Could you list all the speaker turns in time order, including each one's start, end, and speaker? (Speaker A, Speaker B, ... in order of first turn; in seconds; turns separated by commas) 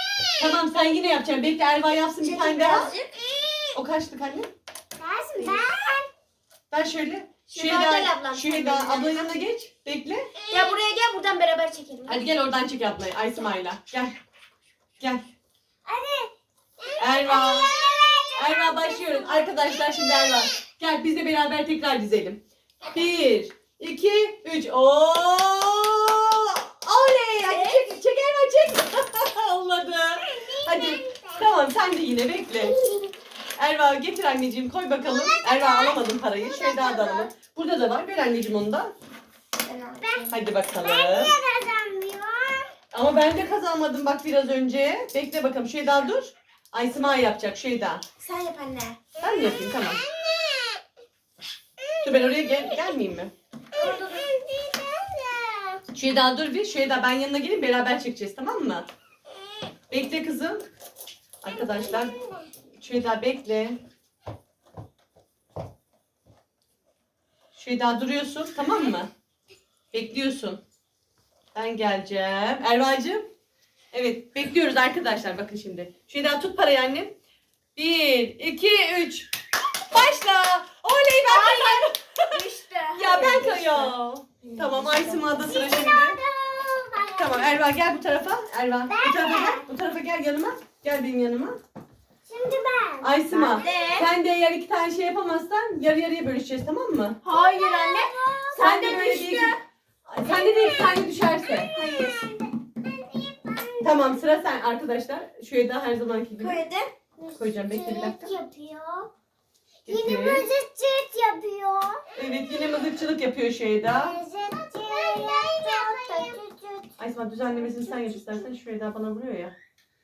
Speaker A: 0.3-2.9, Speaker B: 2.3-2.8, Speaker C: 2.7-3.1, Speaker A: 3.7-4.5, Speaker B: 5.0-6.1, Speaker A: 6.7-10.2, Speaker C: 7.5-9.3, Speaker C: 10.5-12.3, Speaker A: 12.1-14.2, Speaker B: 15.9-19.6, Speaker A: 17.0-17.7, Speaker A: 18.3-32.8, Speaker C: 27.5-27.9, Speaker B: 30.2-31.5, Speaker B: 32.6-33.1, Speaker A: 33.6-38.9, Speaker B: 35.0-37.3, Speaker C: 39.6-40.3, Speaker B: 40.0-42.7, Speaker A: 40.3-41.4, Speaker A: 42.9-48.0, Speaker C: 48.2-49.0, Speaker A: 49.2-50.0, Speaker A: 52.0-53.3, Speaker B: 53.8-55.8, Speaker C: 53.8-54.2, Speaker A: 55.9-58.9, Speaker A: 59.9-60.6, Speaker A: 61.4-62.1, Speaker B: 61.5-62.5, Speaker A: 62.8-63.8, Speaker A: 67.6-69.1, Speaker A: 69.9-70.6, Speaker A: 71.5-73.2, Speaker A: 73.9-77.1, Speaker A: 77.8-79.3, Speaker A: 79.9-82.4, Speaker C: 81.2-85.4, Speaker A: 82.9-86.2, Speaker B: 85.3-87.6, Speaker A: 87.2-91.6, Speaker B: 88.9-89.7, Speaker B: 92.3-94.0, Speaker A: 93.0-97.2, Speaker C: 93.3-94.1, Speaker C: 97.2-99.6, Speaker B: 97.3-98.7, Speaker A: 98.5-99.6, Speaker A: 100.1-101.7, Speaker B: 100.2-104.2, Speaker C: 101.7-102.2, Speaker A: 103.8-106.6, Speaker C: 106.4-106.9, Speaker B: 107.2-109.1, Speaker A: 107.4-108.3, Speaker A: 109.9-110.5, Speaker B: 109.9-112.0, Speaker A: 112.2-114.2, Speaker B: 113.8-116.9, Speaker C: 115.0-116.3, Speaker A: 117.0-119.5